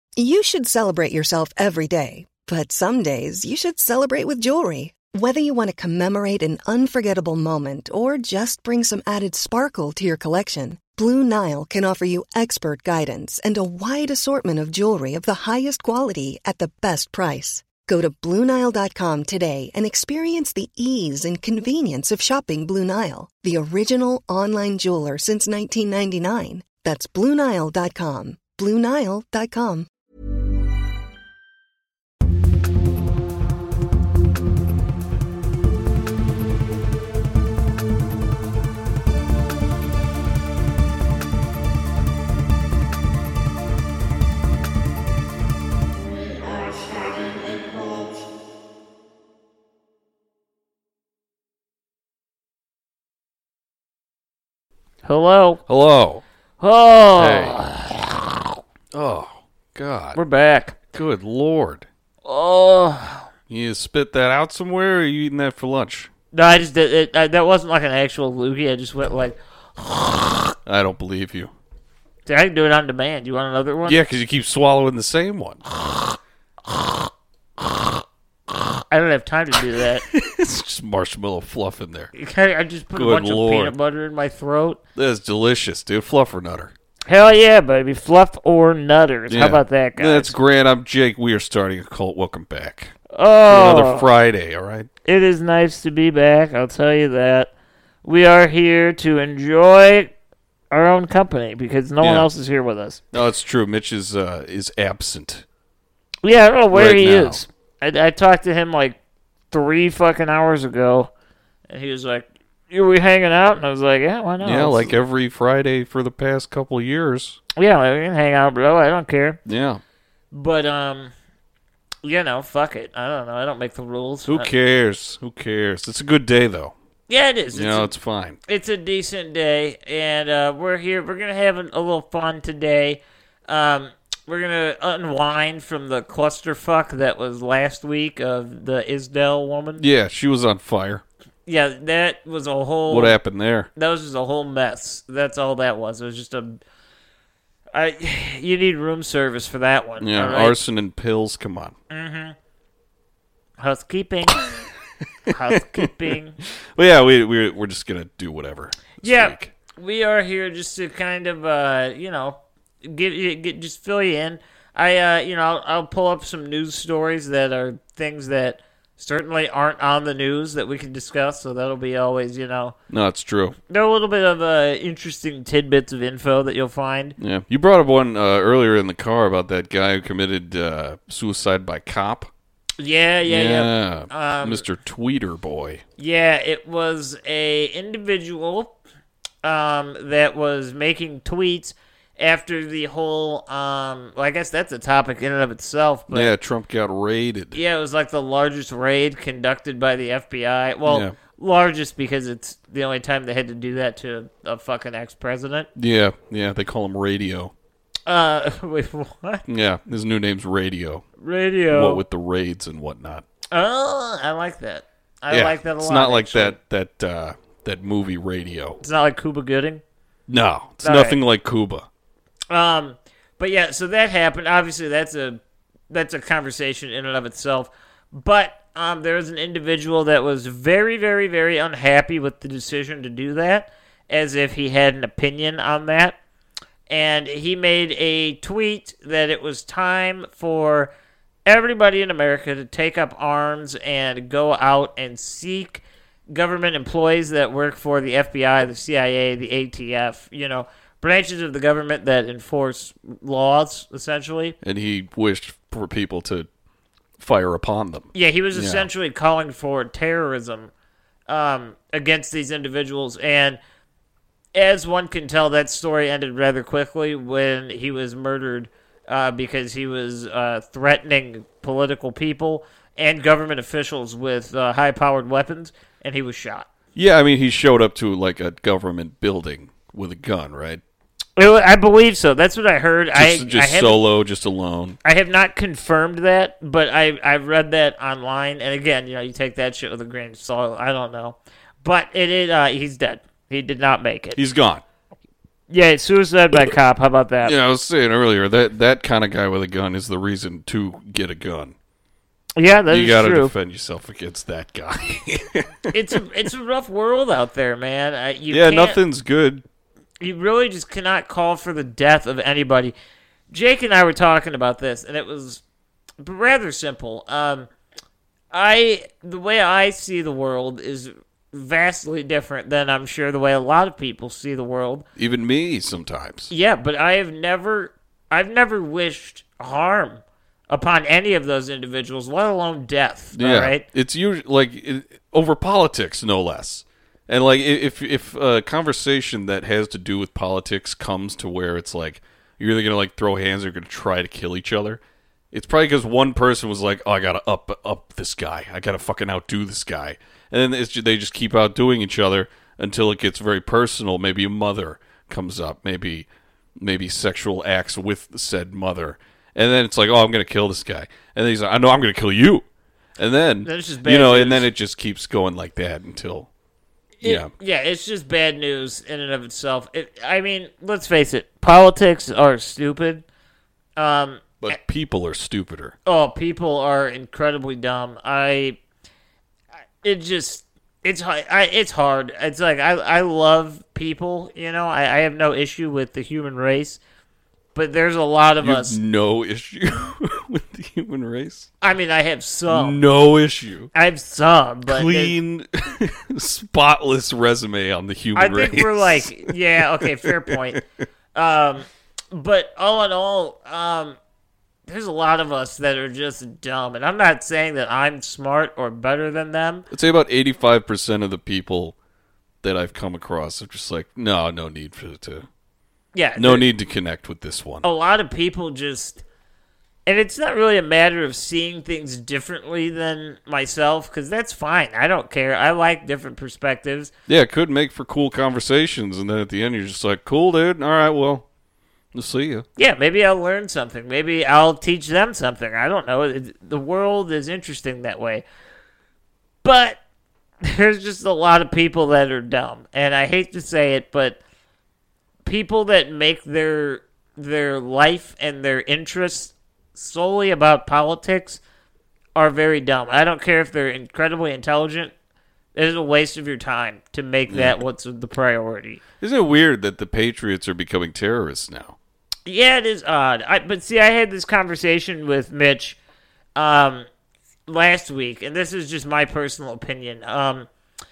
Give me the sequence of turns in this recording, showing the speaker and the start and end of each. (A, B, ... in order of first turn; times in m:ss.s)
0:00.2-0:29.9 A
0:55.0-0:55.6 B
0:55.7-0:56.2 C
0:56.6-0:58.6 B
0:57.1-0:57.6 C
0:58.9-1:00.2 C
1:00.1-1:00.8 B
1:00.9-1:01.9 C
1:02.2-1:03.3 B
1:03.5-1:06.1 C
1:06.3-1:10.5 B
1:10.6-1:11.5 C
1:12.3-1:14.0 B
1:13.8-1:15.6 C
1:15.8-1:16.2 B
1:16.7-1:17.1 B
1:17.6-1:17.9 B
1:18.5-1:20.0 B
1:20.0-1:22.1 C
1:22.1-1:24.8 B
1:22.9-1:23.7 C
1:25.0-1:26.7 C
1:27.1-1:30.4 B
1:29.3-1:32.9 C
1:33.1-1:34.1 B
1:33.5-1:34.9 C
1:35.0-1:37.5 B
1:38.0-1:40.1 B
1:40.7-1:43.0 B
1:42.0-1:42.3 C
1:43.1-1:45.4 C
1:46.2-1:49.0 B
1:46.7-1:47.4 C
1:49.5-1:51.1 B
1:51.7-1:54.9 B
1:54.4-1:57.4 C
1:57.6-1:59.4 B
1:59.4-1:59.8 C
2:00.3-2:01.1 B
2:02.0-2:04.5 B
2:04.3-2:06.7 C
2:07.1-2:07.9 B
2:07.5-2:08.4 C
2:08.5-2:19.8 B
2:19.8-2:21.0 C
2:21.4-2:23.2 B
2:22.9-2:23.7 C
2:23.7-2:26.6 B
2:27.7-2:30.6 B
2:30.0-2:31.7 C
2:31.9-2:32.4 B
2:33.6-2:34.4 B
2:35.3-2:36.1 C
2:35.3-2:36.4 B
2:36.8-2:39.5 C
2:39.0-2:52.8 B
2:52.9-2:53.6 C
2:53.7-2:57.2 B
2:57.2-3:02.3 C
3:02.8-3:04.6 B
3:03.2-3:05.8 C
3:06.0-3:08.7 B
3:09.4-3:16.3 B
3:16.1-3:17.6 C
3:17.5-3:25.7 B
3:20.8-3:21.1 C
3:25.8-3:27.5 C
3:28.1-3:29.4 B
3:29.5-3:31.0 C
3:31.2-3:32.0 B
3:31.7-3:33.2 C
3:33.5-3:36.6 B
3:35.3-3:38.8 C
3:38.8-3:39.8 B
3:40.3-3:41.9 C
3:40.8-3:41.2 B
3:42.5-3:56.2 B
3:56.9-4:00.9 B
4:01.4-4:14.5 B
4:14.6-4:16.5 C
4:17.2-4:18.9 C
4:18.1-4:20.7 B
4:21.3-4:23.6 B
4:24.5-4:36.7 B
4:36.9-4:40.8 C
4:41.4-4:44.0 B
4:43.1-4:45.0 C
4:45.0-4:54.4 B
4:54.4-4:54.8 C
4:55.7-4:57.5 B
4:57.4-5:01.7 C
5:02.6-5:03.5 B
5:02.9-5:06.2 C
5:05.9-5:09.0 B
5:08.5-5:09.6 C
5:10.2-5:12.9 B
5:13.5-5:15.6 B
5:16.2-5:17.7 B
5:18.5-5:25.0 B
5:25.2-5:26.5 C
5:26.5-5:33.8 B
5:33.3-5:45.0 C
5:45.5-5:56.3 C
5:56.8-6:02.6 C
6:03.2-6:06.5 C
6:03.6-6:04.7 B
6:07.2-6:13.2 B
6:07.2-6:07.5 C
6:14.0-6:14.8 B
6:14.6-6:15.9 C
6:16.0-6:18.8 B
6:20.0-6:27.0 B
6:27.7-6:29.0 B
6:28.6-6:31.7 C
6:31.8-6:33.0 B
6:32.7-6:33.9 C
6:33.9-6:35.3 B
6:34.9-6:40.8 C
6:38.3-6:40.8 B
6:41.3-6:44.2 B
6:44.9-6:49.8 B
6:49.9-6:52.0 C
6:52.6-6:55.5 C
6:56.1-6:56.7 B
6:56.4-6:57.8 C
6:57.8-6:59.2 B
7:00.0-7:07.1 B
7:07.3-7:11.4 C
7:12.1-7:12.6 C
7:12.8-7:18.4 B
7:19.6-7:20.0 B
7:20.6-7:24.4 B
7:25.4-7:31.6 B
7:32.3-7:35.1 B
7:35.7-7:39.0 B
7:37.5-7:37.8 C
7:39.2-7:42.0 C
7:42.4-7:46.0 B
7:46.5-7:47.1 B
7:47.7-7:50.7 B